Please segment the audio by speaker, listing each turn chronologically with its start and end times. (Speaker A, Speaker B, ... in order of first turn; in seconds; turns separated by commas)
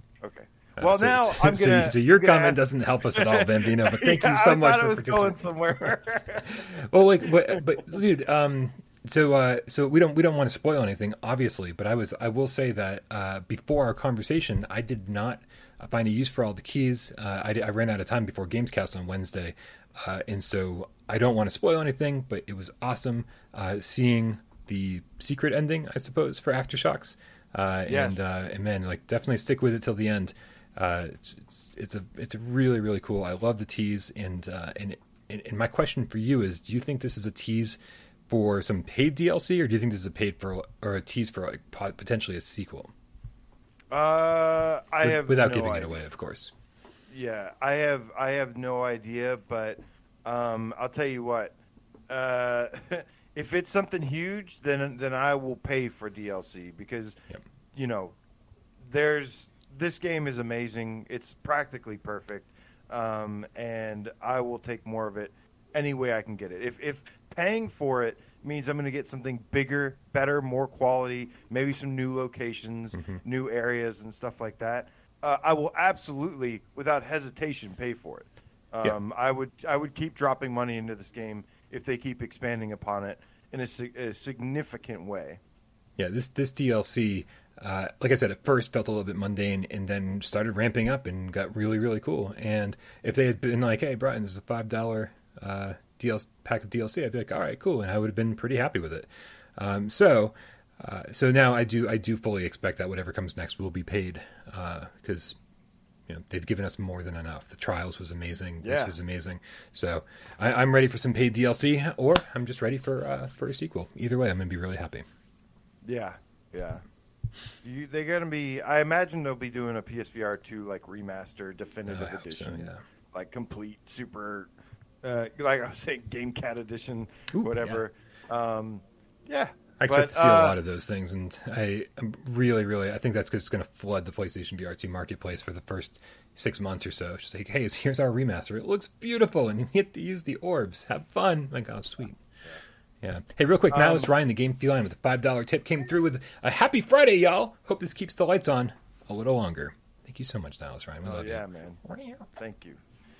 Speaker A: 0.2-6.7, Speaker B: 0.8-5.5, Speaker B: 6.4-42.9, Speaker A: 7.2-7.8, Speaker A: 27.9-28.2, Speaker A: 43.9-46.0, Speaker B: 45.0-46.5, Speaker A: 47.1-51.5, Speaker A: 52.1-57.2, Speaker A: 57.7-58.1, Speaker A: 58.8-85.4, Speaker B: 86.0-105.4, Speaker B: 106.1-115.0, Speaker A: 108.6-108.9, Speaker A: 115.8-116.8, Speaker A: 117.6-124.5, Speaker B: 121.9-122.8, Speaker A: 125.0-130.6, Speaker B: 127.3-127.8, Speaker B: 129.8-142.2, Speaker B: 143.0-152.3, Speaker A: 143.7-144.1, Speaker A: 151.0-151.8, Speaker A: 152.3-152.8